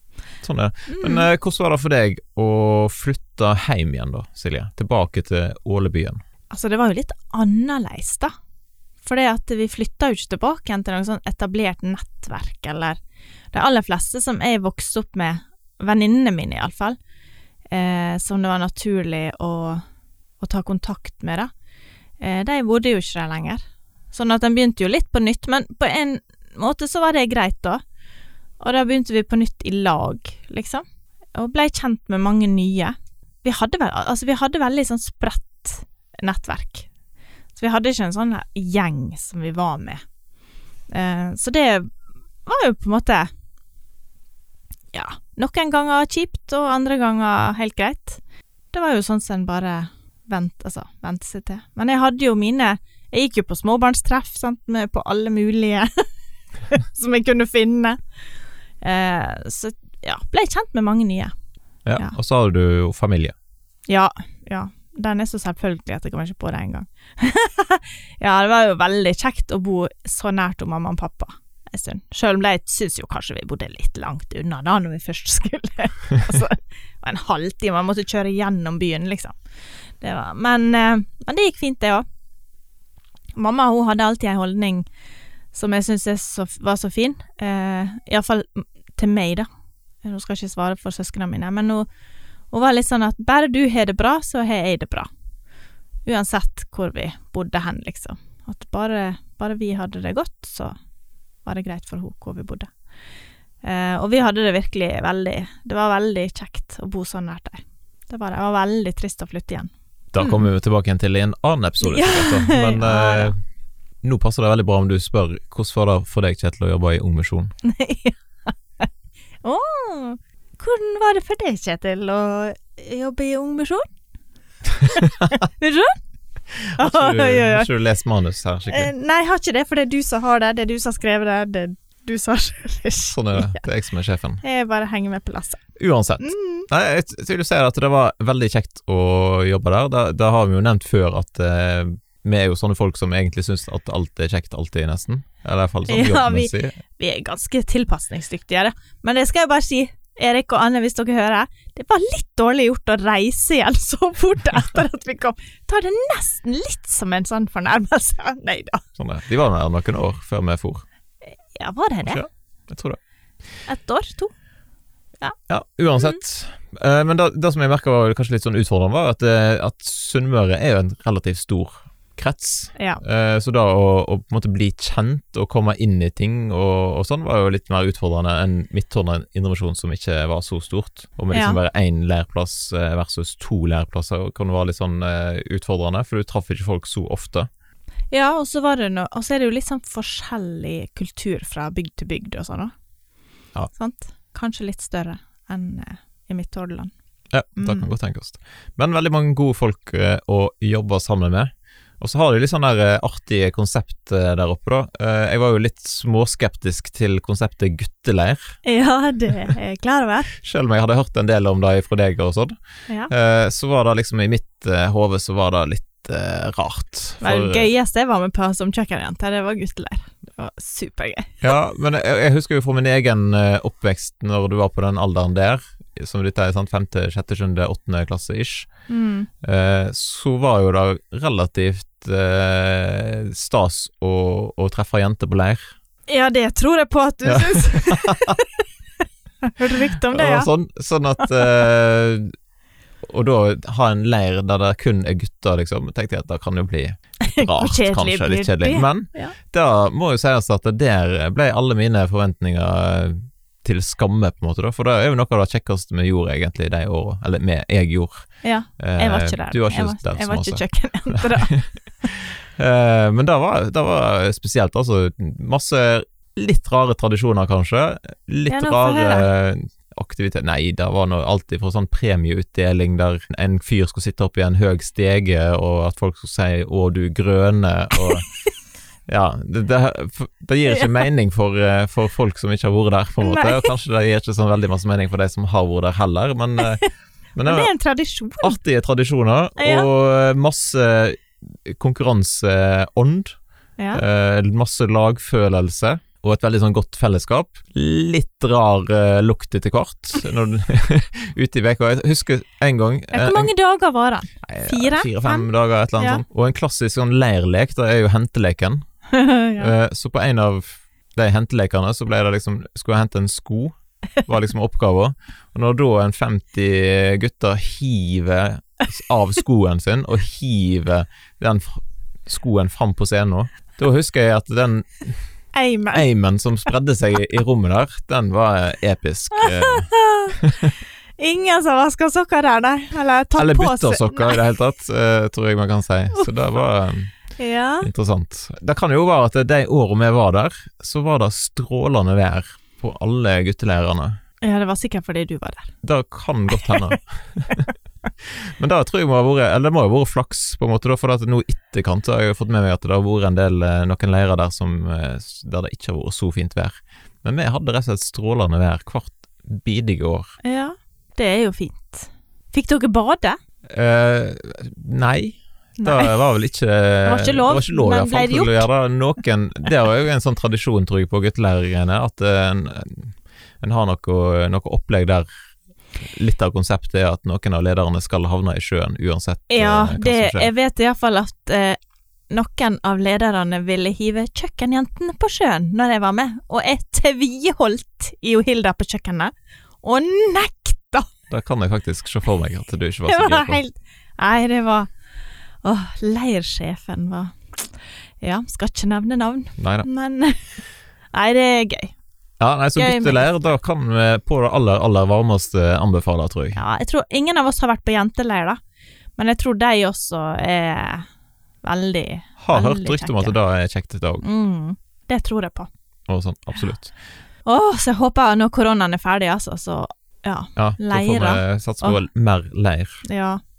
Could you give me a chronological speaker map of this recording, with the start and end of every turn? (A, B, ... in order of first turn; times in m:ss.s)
0:00.4-0:06.2 A
0:00.9-0:01.3 B
0:06.5-0:08.3 B
0:09.0-0:13.0 B
0:13.5-0:17.0 B
0:17.7-0:19.8 B
0:20.4-0:21.5 B
0:22.2-0:23.6 B
0:24.1-0:27.8 B
0:28.6-0:36.9 B
0:37.6-0:40.0 B
0:40.9-0:41.9 B
0:42.5-0:43.3 B
0:44.9-0:48.2 B
0:48.7-0:56.1 B
0:56.7-0:58.0 B
0:58.8-1:01.3 B
1:01.9-1:03.3 A
1:03.9-1:19.4 B
1:20.0-1:22.0 B
1:23.4-1:24.9 B
1:25.5-1:29.5 B
1:30.0-1:31.9 B
1:32.5-1:35.1 B
1:36.1-1:40.8 B
1:41.4-1:42.7 B
1:43.6-1:50.5 B
1:50.1-1:53.4 A
1:51.8-1:53.3 B
1:54.0-1:57.5 A
1:57.6-1:58.9 B
1:59.4-2:03.8 B
2:04.7-2:05.4 A
2:05.0-2:06.0 B
2:06.6-2:08.9 A
2:06.8-2:07.7 B
2:08.7-2:13.6 B
2:13.1-2:14.4 A
2:14.4-2:15.6 B
2:15.8-2:26.8 A
2:16.2-2:16.7 B
2:25.9-2:38.8 B
2:39.0-2:40.8 A
2:41.5-2:42.2 B
2:42.0-2:43.0 A
2:43.7-2:44.3 B
2:45.5-3:07.5 A
2:52.8-2:53.0 B
3:01.3-3:01.6 B
3:08.1-3:12.7 B
3:13.8-3:16.9 B
3:17.3-3:28.5 A
3:17.6-3:17.9 B
3:28.6-3:30.3 B
3:30.3-3:32.6 A
3:33.1-3:37.7 A
3:37.2-3:41.5 B
3:41.4-3:48.7 A
3:48.9-3:49.3 B
3:49.4-3:55.7 A
3:56.1-3:58.5 B
3:57.2-3:58.4 A
3:59.4-4:00.5 B
4:00.0-4:02.3 A
4:03.0-4:18.3 A
4:07.2-4:09.4 B
4:18.4-4:22.1 B
4:18.8-4:21.7 A
4:22.2-4:38.3 A
4:28.5-4:29.3 B
4:39.1-4:47.7 A
4:43.2-4:43.7 B
4:47.5-4:48.6 B
4:48.4-4:53.4 A
4:49.6-4:49.9 B
4:53.8-4:54.0 B
4:53.9-5:03.5 A
5:03.1-5:06.2 B
5:04.4-5:08.8 A
5:09.1-5:09.7 B
5:09.6-5:25.2 A
5:25.5-5:26.0 B
5:25.9-5:30.8 A
5:29.4-5:30.4 B
5:31.2-5:34.4 B
5:33.4-5:37.1 A
5:37.4-5:37.9 B
5:37.8-5:44.2 A
5:44.4-5:45.7 B
5:45.8-5:47.7 A
5:46.6-5:47.0 B
5:48.6-6:00.3 A
6:00.4-6:03.4 B
6:03.7-6:15.3 A
6:05.8-6:06.1 B
6:07.0-6:08.7 B
6:16.0-6:20.5 A
6:19.5-6:21.8 B
6:22.3-6:31.1 B
6:31.3-6:33.6 A
6:33.1-6:34.9 B
6:35.6-6:37.7 B
6:38.2-6:40.6 B
6:39.6-6:39.9 A
6:41.1-6:42.0 B
6:42.4-6:46.6 A
6:42.8-6:43.3 B
6:46.6-6:48.6 B
6:49.2-6:51.1 B
6:51.6-6:53.4 B
6:52.4-6:54.2 A
6:54.2-6:55.7 B
6:56.1-6:56.9 A
6:57.5-7:02.0 B
7:00.6-7:03.0 A
7:03.0-7:03.4 B